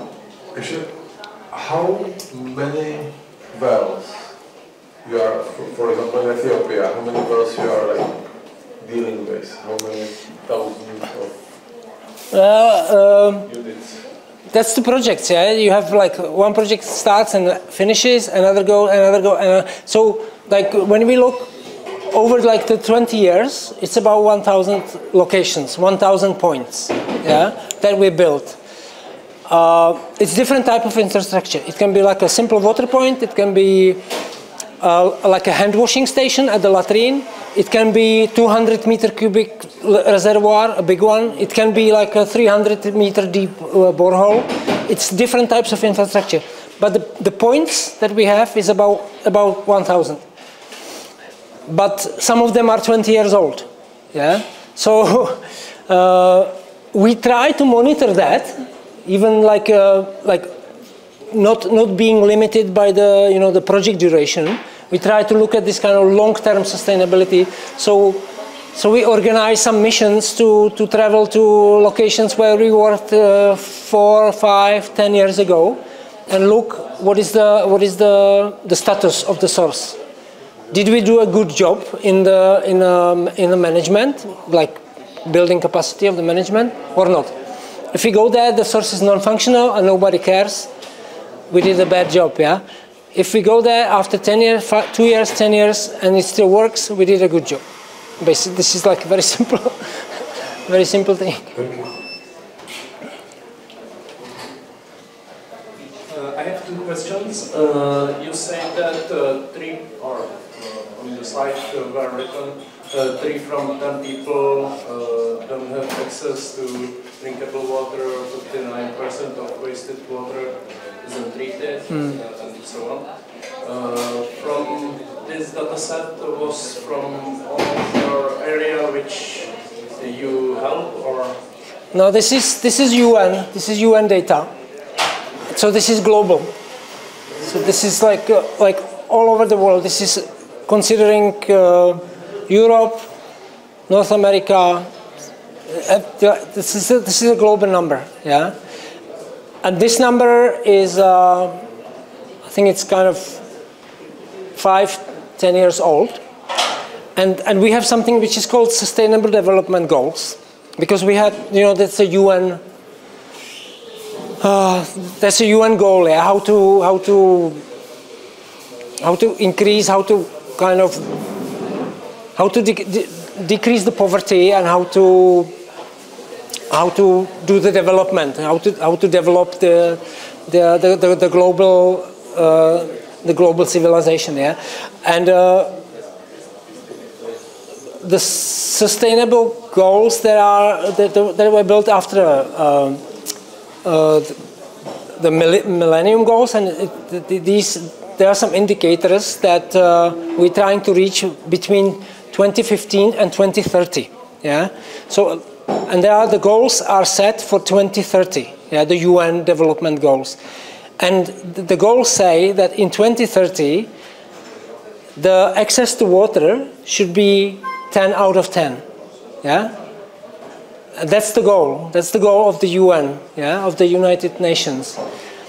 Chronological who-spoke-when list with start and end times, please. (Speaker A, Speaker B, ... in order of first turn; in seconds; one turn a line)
Speaker A: 0.5-4.3
Speaker A: 5.0-11.3
Speaker B: 12.3-13.5
Speaker A: 13.5-14.0
Speaker B: 14.5-21.5
Speaker B: 22.1-28.6
Speaker B: 29.5-34.0
Speaker B: 34.8-50.2
Speaker B: 51.7-60.5
Speaker B: 61.3-80.0
Speaker B: 80.7-87.3
Speaker B: 87.9-90.7
Speaker B: 91.5-92.6
Speaker B: 93.1-97.6
Speaker B: 98.2-101.5
Speaker A: 101.5-101.9
Speaker C: 106.0-123.1
Speaker B: 121.9-122.2
Speaker C: 123.6-131.3
Speaker B: 131.9-134.5
Speaker B: 135.5-136.5
Speaker B: 137.4-143.1
Speaker B: 143.9-144.9
Speaker B: 145.7-148.5
Speaker B: 149.6-151.6
Speaker B: 152.4-153.4
Speaker B: 154.6-156.2
Speaker B: 157.2-162.6
Speaker B: 164.4-167.6
Speaker B: 169.0-171.1
Speaker B: 172.3-175.5
Speaker B: 176.7-185.8
Speaker B: 188.0-193.0
Speaker B: 193.8-194.4
Speaker B: 195.1-210.4
Speaker B: 211.0-213.9
Speaker B: 215.2-218.8
Speaker B: 219.4-219.7
Speaker B: 221.0-225.0